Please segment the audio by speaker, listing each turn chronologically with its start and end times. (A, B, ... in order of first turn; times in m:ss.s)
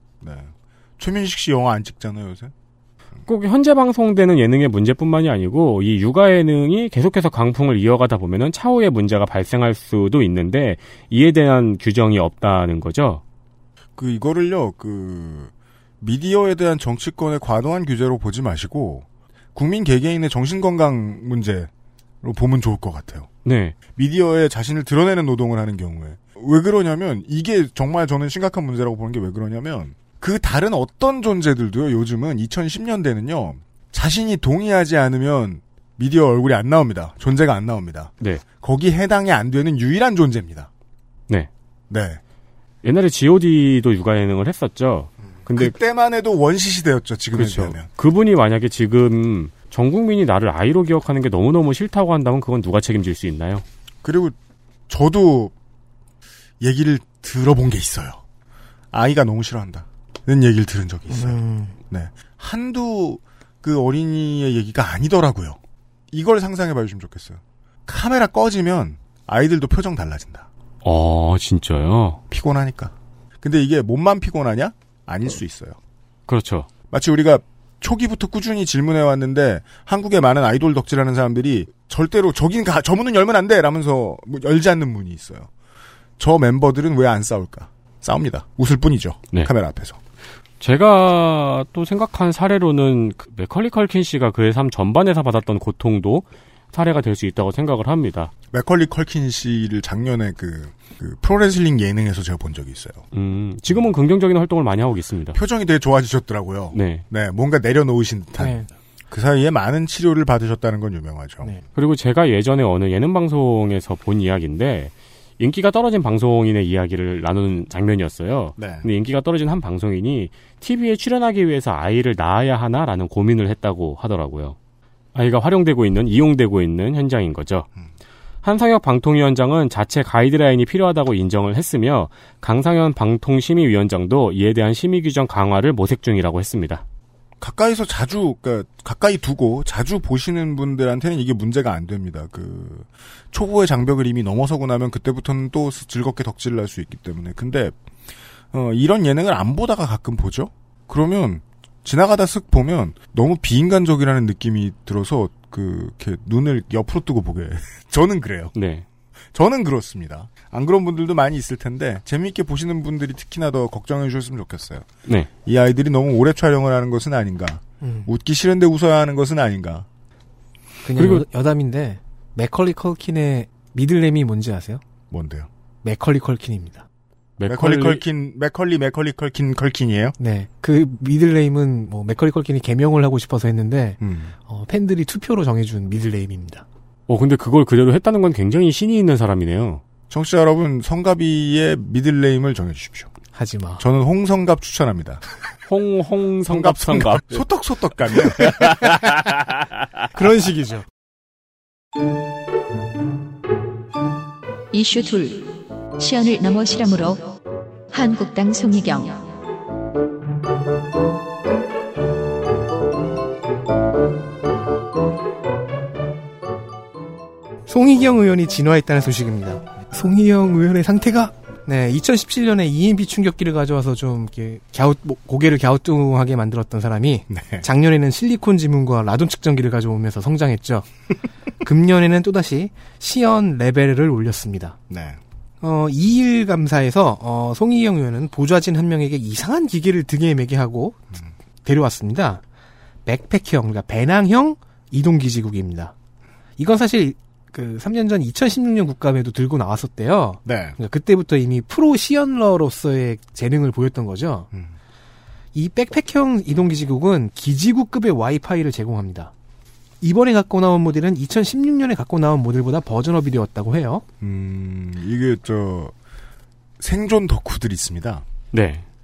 0:00.2-0:02.5 A
0:03.3-0:13.2 B
0:14.0-0:21.7 A
0:22.2-0:23.3 A
0:23.4-0:23.7 B
0:24.0-0:40.7 A
0:41.9-0:42.2 A
0:42.8-0:45.7 B
0:45.4-0:47.9 A
0:47.3-0:53.6 B
0:54.0-0:54.3 A
0:54.9-0:55.5 A
0:56.6-0:58.2 A
0:58.9-1:05.6 A
1:01.1-1:01.7 C
1:06.1-1:10.5 A
1:10.8-1:12.2 B
1:12.3-1:15.8 A
1:16.3-1:16.7 B
1:16.9-1:25.5 A
1:26.2-1:30.0 A
1:30.6-1:38.3 B
1:38.5-1:43.0 A
1:43.1-1:45.4 B
1:45.3-1:51.5 A
1:46.7-1:47.0 B
1:48.4-1:48.7 C
1:51.7-2:04.6 B
1:58.6-1:58.9 A
2:05.1-2:07.7 B
2:08.4-2:16.8 B
2:17.4-2:27.8 A
2:28.5-2:38.5 A
2:38.5-2:38.8 B
2:39.3-2:44.9 A
2:45.4-2:49.8 A
2:47.8-2:48.1 C
2:50.8-2:54.8 C
2:51.0-2:51.2 B
2:55.1-2:55.5 A
2:55.8-2:56.8 C
2:57.4-2:58.0 B
2:57.4-3:00.1 A
3:00.2-3:06.6 C
3:04.0-3:04.3 A
3:07.1-3:09.8 B
3:10.1-3:13.1 A
3:13.3-3:13.8 C
3:13.8-3:15.2 A
3:15.7-3:17.4 B
3:16.4-3:18.9 A
3:18.4-3:19.1 B
3:20.1-3:20.8 C
3:24.7-3:27.3 D
3:27.9-3:29.2 D
3:37.7-3:50.9 C
3:47.3-3:47.6 A
3:51.6-3:54.8 C
3:54.9-3:55.2 A
3:55.6-4:01.0 C
4:01.6-4:02.4 C
4:03.0-4:05.9 C
4:06.6-4:14.5 C
4:10.4-4:10.8 A
4:15.5-4:19.3 C
4:20.0-4:24.0 C
4:24.2-4:25.9 A
4:26.8-4:28.2 A
4:28.5-4:28.8 B